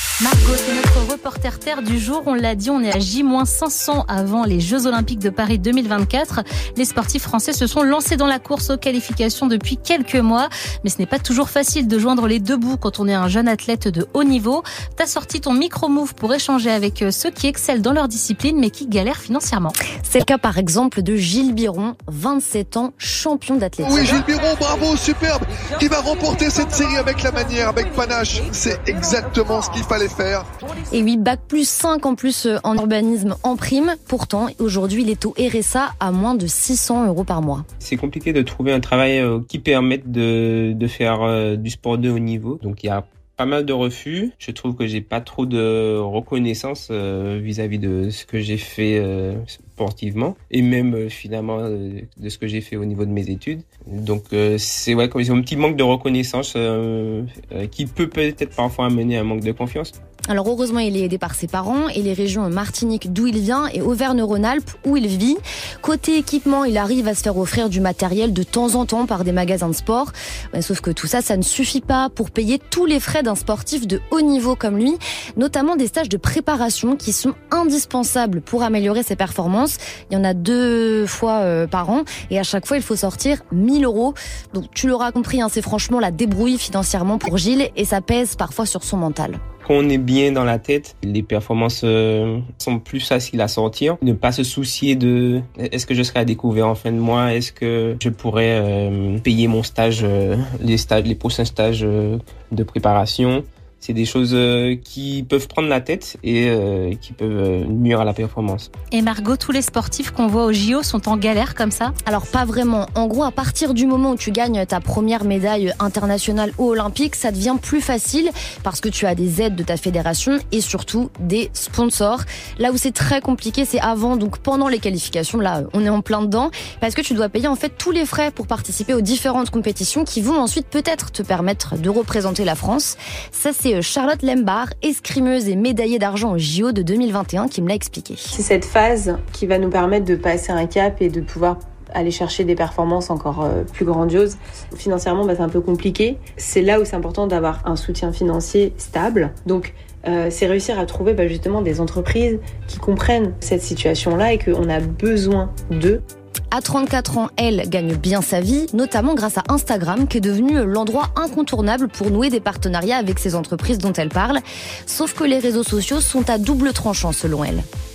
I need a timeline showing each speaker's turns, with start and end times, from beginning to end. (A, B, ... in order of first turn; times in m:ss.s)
0:00.2-0:19.8 A
0:20.1-0:24.2 B
0:23.8-0:30.5 C
0:30.9-0:37.6 B
0:37.8-0:59.9 D
1:00.3-1:29.4 B
1:29.6-1:48.7 D
1:48.9-1:51.9 A
1:52.1-2:18.3 B
2:18.3-2:36.0 E
2:36.5-2:47.6 B